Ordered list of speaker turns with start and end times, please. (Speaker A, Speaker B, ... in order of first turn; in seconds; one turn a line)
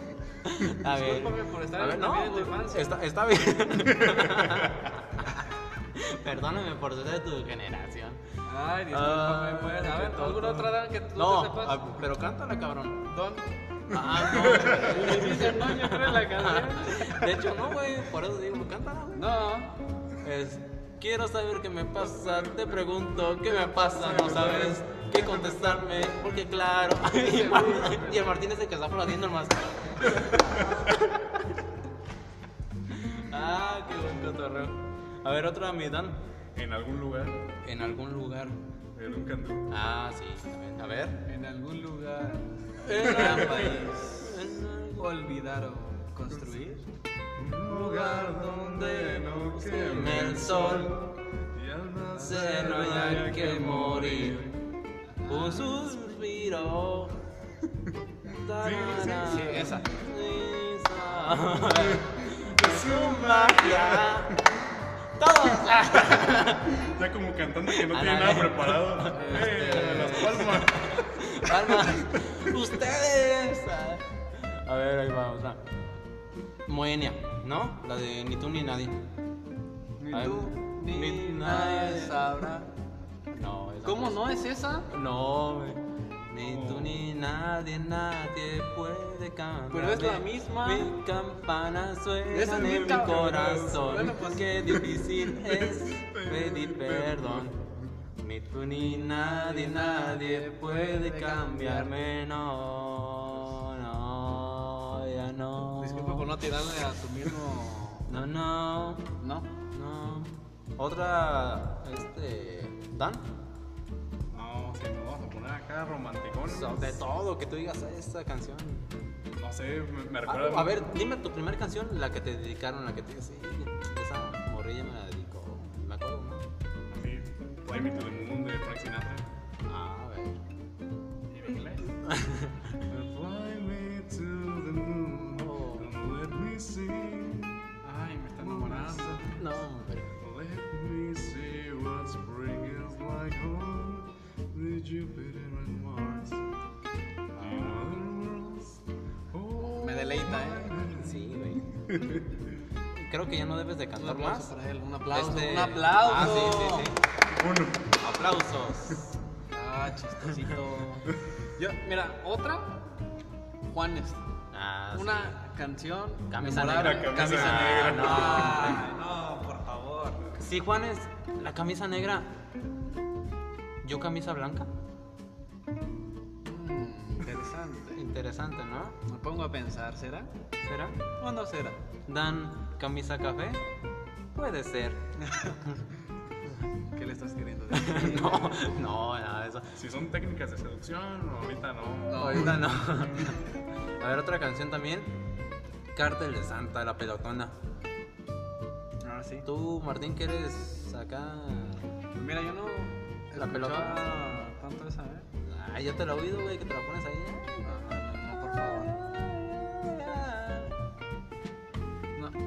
Speaker A: 0.4-8.2
Speaker B: 0.8-3.0
Speaker C: 4.0-4.9
Speaker B: 8.5-12.0
Speaker A: 8.9-13.1
Speaker B: 13.1-13.5
Speaker A: 13.9-19.3
Speaker C: 13.9-15.0
Speaker B: 14.7-17.3
Speaker B: 19.1-19.7
Speaker A: 20.2-31.5
Speaker C: 22.0-22.9
Speaker C: 23.7-26.4
Speaker B: 27.0-28.4
Speaker C: 30.1-30.9
Speaker A: 32.9-36.2
Speaker C: 36.5-37.6
Speaker A: 37.6-38.6
Speaker C: 39.0-39.8
Speaker A: 39.7-41.2
Speaker B: 41.2-46.9
Speaker A: 42.8-45.1
Speaker C: 43.1-43.7
Speaker C: 47.4-54.6
Speaker A: 47.7-51.0
Speaker A: 52.2-54.5
Speaker B: 52.3-53.2
Speaker B: 55.2-56.0
Speaker A: 55.3-57.2
Speaker A: 58.3-64.4
Speaker C: 58.5-59.8
Speaker B: 59.0-59.9
Speaker C: 61.3-64.8
Speaker A: 65.2-66.8
Speaker C: 65.7-72.5
Speaker A: 67.7-75.6
Speaker B: 69.1-70.5
Speaker A: 76.7-79.0
Speaker B: 80.0-82.7
Speaker A: 80.1-82.5
Speaker A: 83.3-84.2
Speaker B: 83.8-84.9
Speaker A: 84.9-97.6
Speaker C: 86.4-87.1
Speaker B: 89.7-91.0
Speaker B: 92.3-94.7
Speaker C: 92.6-97.9
Speaker A: 98.2-106.3
Speaker B: 98.9-101.9
Speaker B: 105.8-108.1
Speaker A: 108.1-109.1
Speaker B: 109.2-109.5
Speaker A: 109.7-113.2
Speaker C: 114.3-117.0
Speaker A: 116.5-119.0
Speaker C: 119.3-120.9
Speaker A: 120.2-126.5
Speaker C: 126.9-129.3
Speaker A: 129.7-130.4
Speaker B: 131.3-132.0
Speaker A: 132.0-132.8
Speaker C: 132.9-137.7
Speaker A: 135.3-135.9
Speaker B: 137.8-139.4
Speaker C: 138.4-139.4
Speaker A: 139.3-140.2
Speaker C: 140.2-146.4
Speaker A: 147.4-147.8
Speaker C: 147.4-152.6
Speaker B: 149.8-150.8
Speaker A: 150.9-151.7
Speaker A: 152.9-154.5
Speaker B: 154.0-156.9
Speaker A: 155.1-157.0
Speaker C: 157.3-158.0
Speaker A: 158.0-159.2
Speaker B: 159.5-163.0
Speaker B: 163.7-164.2
Speaker A: 164.5-165.4
Speaker B: 164.9-170.4
Speaker A: 166.3-168.8
Speaker C: 166.6-168.8
Speaker A: 170.4-172.3
Speaker A: 173.8-174.7
Speaker B: 176.4-178.1
Speaker A: 177.9-179.0
Speaker B: 179.1-180.3
Speaker A: 180.7-181.1
Speaker B: 181.2-181.8
Speaker A: 182.1-183.7
Speaker A: 184.3-185.1
Speaker B: 185.2-185.7
Speaker B: 186.9-188.7
Speaker A: 187.7-189.7
Speaker C: 189.8-192.8
Speaker B: 192.1-192.7
Speaker A: 192.2-193.4
Speaker A: 194.0-195.1
Speaker A: 195.9-197.5
Speaker B: 199.0-199.5
Speaker A: 199.4-201.9
Speaker B: 202.2-205.3
Speaker A: 203.4-204.0
Speaker A: 205.4-207.7
Speaker B: 207.6-209.0
Speaker A: 208.7-210.8